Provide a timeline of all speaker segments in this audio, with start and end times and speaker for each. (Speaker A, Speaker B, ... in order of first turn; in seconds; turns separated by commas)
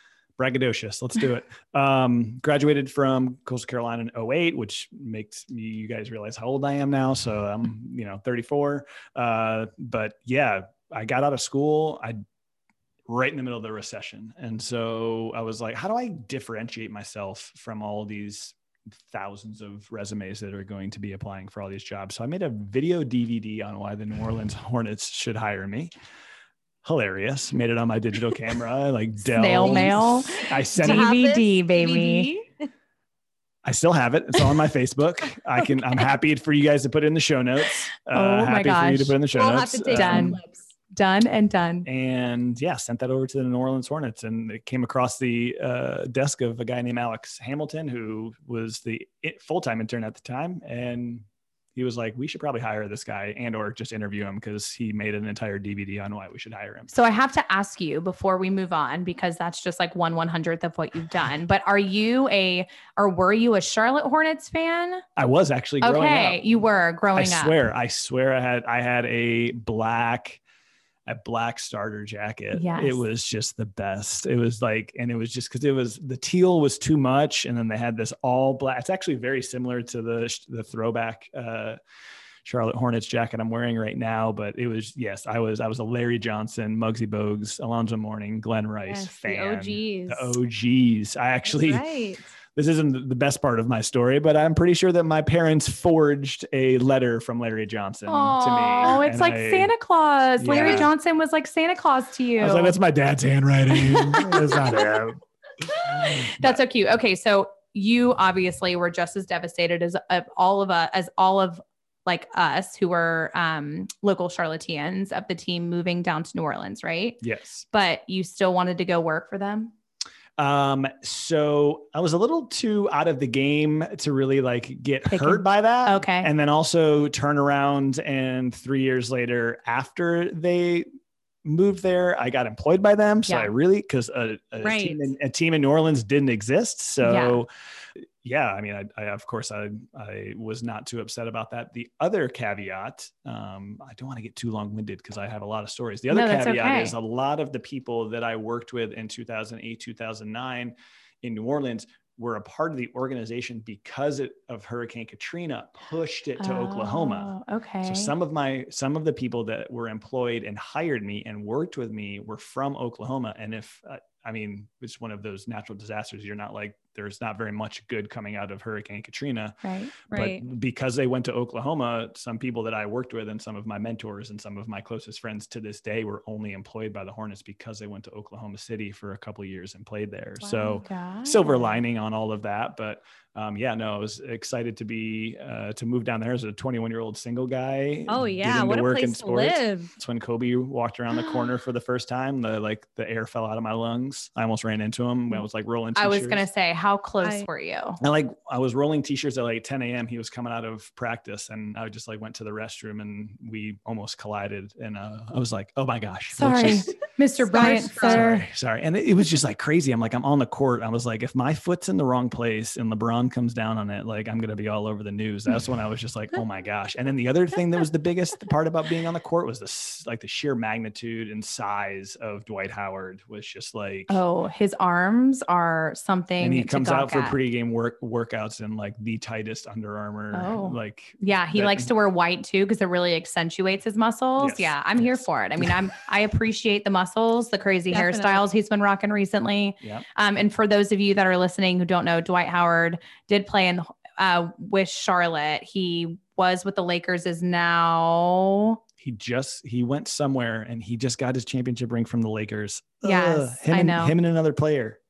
Speaker A: 0.4-12.2, Speaker A: 13.1-18.6, Speaker A: 19.1-25.9, Speaker A: 26.8-31.1, Speaker B: 29.3-32.3, Speaker C: 30.7-32.5, Speaker A: 33.6-40.4, Speaker B: 38.1-39.2, Speaker C: 39.3-40.6, Speaker B: 39.9-40.4, Speaker B: 40.9-41.9, Speaker A: 41.8-51.2, Speaker A: 51.7-56.9, Speaker B: 56.9-65.0, Speaker A: 65.2-66.4, Speaker B: 65.8-67.6, Speaker A: 67.2-70.4, Speaker A: 71.0-81.8, Speaker B: 72.5-73.0, Speaker A: 82.4-91.8, Speaker C: 88.9-90.3, Speaker C: 91.5-92.2, Speaker A: 92.5-99.7, Speaker B: 98.1-102.8, Speaker A: 100.4-100.9, Speaker C: 100.5-100.9, Speaker A: 102.4-105.2, Speaker B: 103.8-104.8, Speaker A: 105.8-106.6, Speaker B: 106.0-117.2, Speaker A: 117.2-117.6, Speaker B: 117.7-119.7, Speaker A: 120.4-130.9, Speaker B: 125.1-126.3, Speaker A: 131.4-169.6, Speaker C: 134.6-135.1, Speaker B: 137.0-137.4, Speaker B: 146.1-146.9, Speaker B: 156.4-158.1, Speaker B: 169.6-169.9, Speaker C: 170.1-170.4, Speaker A: 170.1-196.5, Speaker B: 180.4-181.8, Speaker C: 188.1-189.9, Speaker B: 195.9-198.0, Speaker C: 197.2-197.5, Speaker A: 198.0-206.9, Speaker B: 206.3-208.4, Speaker C: 207.4-208.3, Speaker A: 207.9-224.2, Speaker B: 224.1-227.3, Speaker A: 226.4-231.9, Speaker B: 230.3-248.8, Speaker A: 234.4-235.8, Speaker C: 237.9-238.4, Speaker A: 249.0-255.0, Speaker B: 253.0-254.1